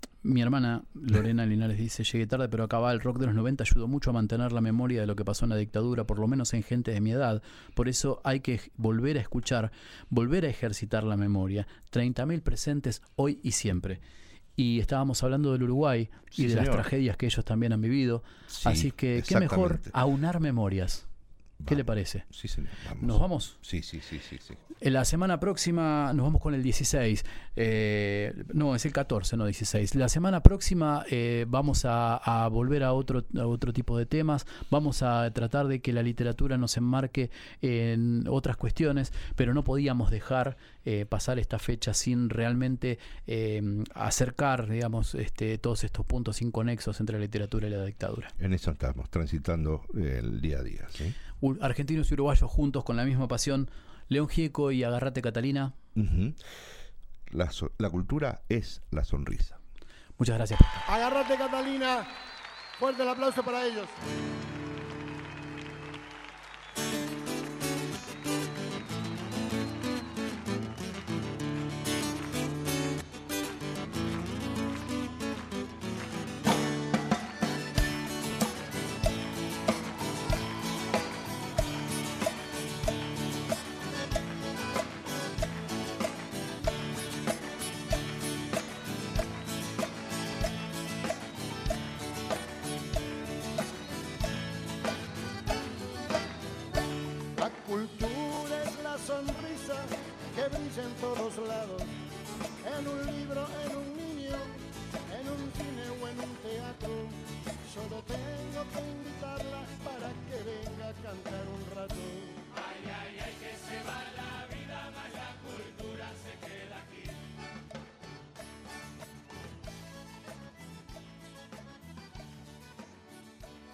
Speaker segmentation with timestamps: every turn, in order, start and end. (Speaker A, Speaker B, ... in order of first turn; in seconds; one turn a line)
Speaker A: 0.2-14.0
Speaker A: 14.6-21.1
Speaker B: 16.3-16.9
Speaker B: 18.5-19.9
Speaker B: 21.6-24.6
Speaker A: 21.7-22.3
Speaker A: 23.0-23.6
Speaker A: 24.8-48.3
Speaker B: 48.4-51.1
Speaker A: 51.4-55.7
Speaker B: 55.9-56.4
Speaker B: 57.3-59.6
Speaker A: 60.2-60.9
Speaker C: 60.9-62.1
Speaker C: 62.8-63.9
Speaker C: 97.4-101.9
Speaker C: 102.6-116.8